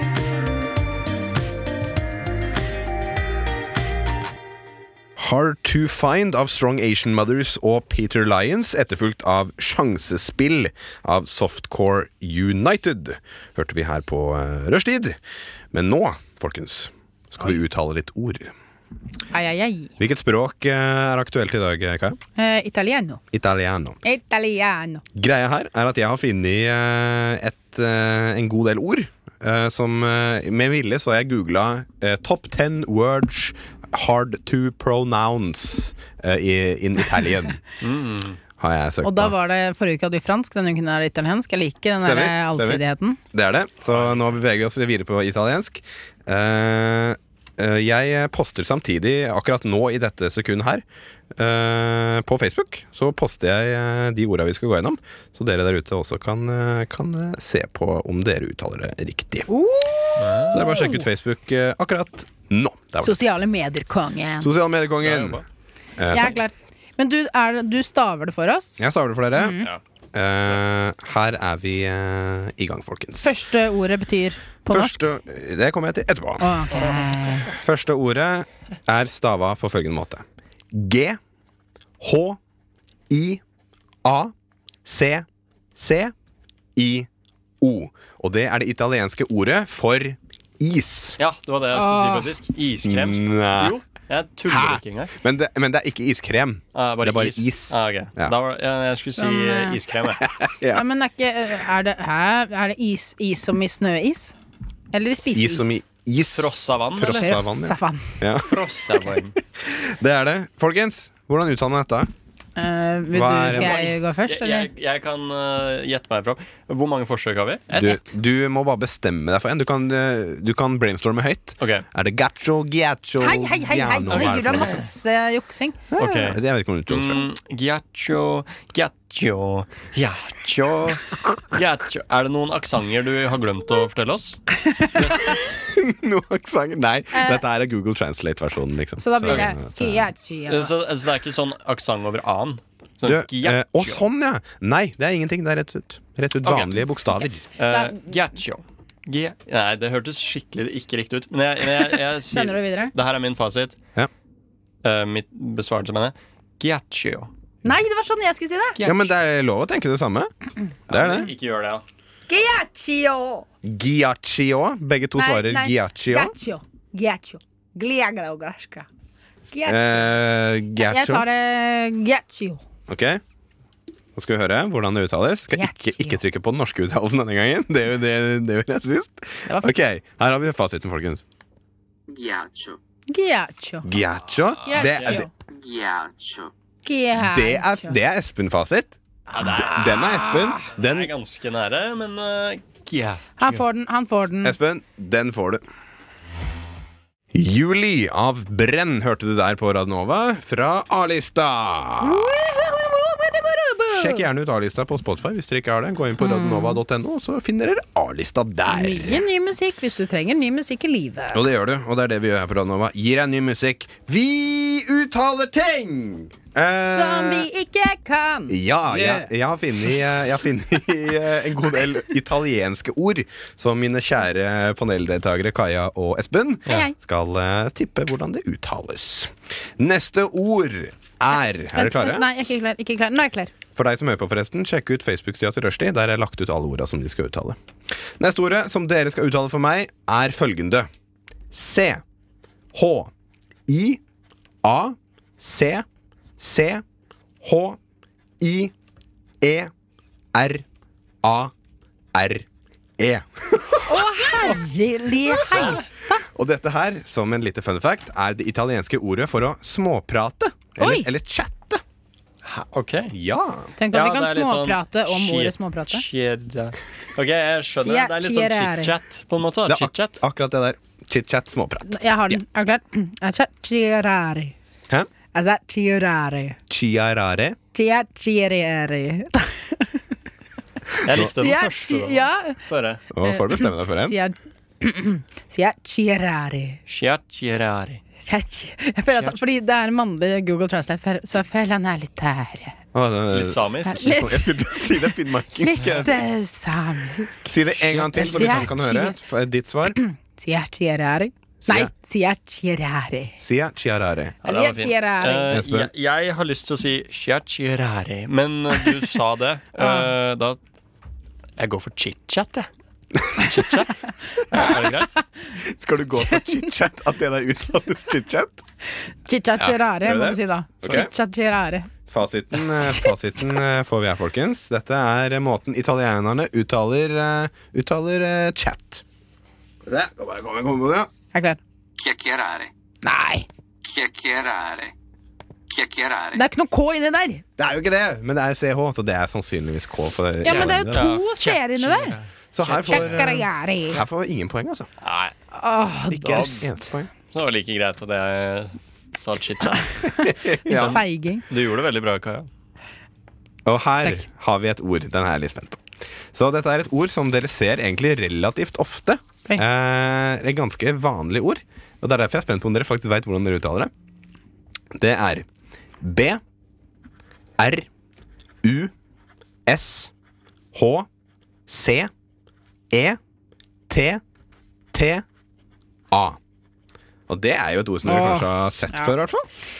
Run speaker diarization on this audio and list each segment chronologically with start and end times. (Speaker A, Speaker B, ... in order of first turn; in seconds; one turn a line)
Speaker A: 5.2-15.2
Speaker A: 15.7-18.5
Speaker B: 19.3-19.9
Speaker A: 20.0-22.2
Speaker B: 22.4-23.2
Speaker A: 23.3-24.0
Speaker B: 24.0-25.0
Speaker A: 25.1-37.6
Speaker C: 37.8-38.4
Speaker A: 38.6-39.3
Speaker B: 39.0-43.2
Speaker A: 42.0-50.8
Speaker C: 43.9-44.3
Speaker A: 51.4-59.5
Speaker B: 59.5-61.0
Speaker C: 60.2-60.6
Speaker A: 60.5-63.2
Speaker B: 63.0-64.5
Speaker A: 64.4-65.4
Speaker C: 65.0-65.4
Speaker A: 66.0-66.4
Speaker B: 66.1-69.7
Speaker A: 68.8-69.6
Speaker A: 70.1-73.3
Speaker B: 73.2-75.0
Speaker A: 74.7-76.5
Speaker B: 76.4-77.5
Speaker A: 77.5-81.2
Speaker A: 82.0-82.4
Speaker A: 83.1-83.4
Speaker A: 84.0-84.3
Speaker A: 84.8-86.1
Speaker A: 86.8-87.1
Speaker A: 87.6-91.2
Speaker C: 91.2-95.2
Speaker B: 91.7-92.3
Speaker A: 92.8-93.8
Speaker A: 94.5-98.3
Speaker C: 96.7-100.3
Speaker B: 99.2-99.8
Speaker A: 100.2-100.8
Speaker B: 100.7-104.3
Speaker B: 104.9-105.8
Speaker A: 105.3-108.8
Speaker C: 106.3-107.3
Speaker B: 107.1-108.2
Speaker C: 108.4-109.3
Speaker A: 109.5-112.1
Speaker B: 112.6-114.7
Speaker A: 113.1-113.9
Speaker C: 113.5-117.8
Speaker B: 117.7-118.0
Speaker A: 117.8-124.9
Speaker C: 121.6-121.8
Speaker B: 123.2-125.8
Speaker C: 124.1-124.8
Speaker A: 125.9-127.3
Speaker C: 126.0-135.4
Speaker A: 135.3-140.1
Speaker B: 137.1-137.4
Speaker B: 139.0-140.7
Speaker C: 140.5-144.0
Speaker A: 143.0-147.4
Speaker C: 146.4-146.8
Speaker C: 147.6-153.8
Speaker B: 147.7-148.0
Speaker B: 152.3-152.9
Speaker C: 154.8-157.3
Speaker B: 157.6-158.8
Speaker C: 158.8-159.1
Speaker A: 158.8-160.3
Speaker A: 160.9-161.3
Speaker C: 160.9-161.8
Speaker B: 162.3-163.4
Speaker A: 163.6-166.3
Speaker B: 165.2-168.9
Speaker B: 169.5-170.1
Speaker A: 169.7-171.2
Speaker B: 170.8-172.6
Speaker A: 172.9-173.2
Speaker A: 174.1-181.2
Speaker B: 175.5-176.2
Speaker B: 179.5-179.8
Speaker D: 182.1-182.8
Speaker B: 183.1-183.9
Speaker A: 183.8-185.2
Speaker B: 184.7-185.3
Speaker C: 184.7-185.2
Speaker D: 185.6-186.5
Speaker B: 186.8-188.0
Speaker A: 187.2-188.9
Speaker B: 189.3-190.7
Speaker C: 189.3-189.9
Speaker A: 189.5-191.1
Speaker C: 190.7-193.6
Speaker B: 193.4-194.5
Speaker A: 194.4-195.6
Speaker A: 197.3-202.3
Speaker B: 202.0-204.2
Speaker A: 203.9-209.2
Speaker B: 206.2-206.8
Speaker B: 208.7-211.4
Speaker A: 211.3-217.5
Speaker B: 216.8-219.3
Speaker A: 218.5-232.2
Speaker B: 226.7-226.9
Speaker B: 231.7-233.5
Speaker A: 233.8-237.6
Speaker A: 238.2-240.9
Speaker A: 241.5-242.0
Speaker A: 242.7-243.1
Speaker A: 243.7-244.0
Speaker A: 244.6-245.8
Speaker A: 246.4-246.8
Speaker A: 247.4-247.8
Speaker A: 248.4-248.7
Speaker A: 249.4-249.7
Speaker A: 250.3-250.6
Speaker A: 251.2-251.5
Speaker A: 252.1-252.5
Speaker A: 253.0-254.1
Speaker B: 253.9-256.2
Speaker A: 255.5-255.8
Speaker A: 256.3-261.8
Speaker B: 260.8-261.1
Speaker C: 262.4-263.1
Speaker A: 263.1-263.7
Speaker B: 263.8-266.0
Speaker C: 263.9-270.2
Speaker B: 267.8-268.9
Speaker A: 269.6-272.4
Speaker B: 271.9-274.5
Speaker B: 275.3-276.6
Speaker A: 276.7-277.6
Speaker B: 277.7-280.0
Speaker C: 281.0-283.0
Speaker B: 281.2-282.6
Speaker A: 283.1-284.2
Speaker B: 283.2-286.8
Speaker C: 286.9-288.0
Speaker B: 288.2-292.8
Speaker C: 289.1-289.4
Speaker A: 292.9-296.2
Speaker C: 293.3-294.1
Speaker B: 293.9-299.2
Speaker A: 297.5-300.0
Speaker C: 297.9-298.7
Speaker B: 299.9-303.4
Speaker A: 301.6-301.9
Speaker A: 303.4-304.4
Speaker B: 304.4-305.6
Speaker C: 304.4-310.6
Speaker A: 305.5-305.9
Speaker B: 309.8-310.1
Speaker C: 311.6-312.7
Speaker A: 313.1-313.5
Speaker C: 313.3-315.1
Speaker A: 315.6-318.6
Speaker B: 319.3-321.9
Speaker A: 320.0-321.1
Speaker A: 322.1-329.0
Speaker B: 322.8-323.1
Speaker A: 329.9-331.1
Speaker B: 331.3-331.6
Speaker D: 332.0-332.6
Speaker B: 333.0-333.5
Speaker A: 334.1-334.8
Speaker B: 336.3-337.4
Speaker A: 337.6-341.1
Speaker B: 340.4-342.1
Speaker C: 340.4-343.2
Speaker A: 342.5-344.9
Speaker B: 342.9-344.0
Speaker C: 345.0-345.3
Speaker B: 345.5-346.7
Speaker A: 346.1-347.1
Speaker C: 346.2-346.6
Speaker C: 347.3-350.0
Speaker B: 350.1-351.4
Speaker A: 350.2-351.0
Speaker C: 350.7-352.5
Speaker A: 353.6-363.9
Speaker A: 364.9-365.4
Speaker A: 366.0-366.4
Speaker A: 367.6-367.9
Speaker A: 368.6-368.9
Speaker A: 369.6-370.1
Speaker A: 370.7-371.1
Speaker A: 371.7-372.1
Speaker A: 372.9-373.2
Speaker A: 373.9-374.2
Speaker A: 374.9-375.2
Speaker A: 376.1-376.4
Speaker A: 377.3-379.5
Speaker B: 378.0-379.1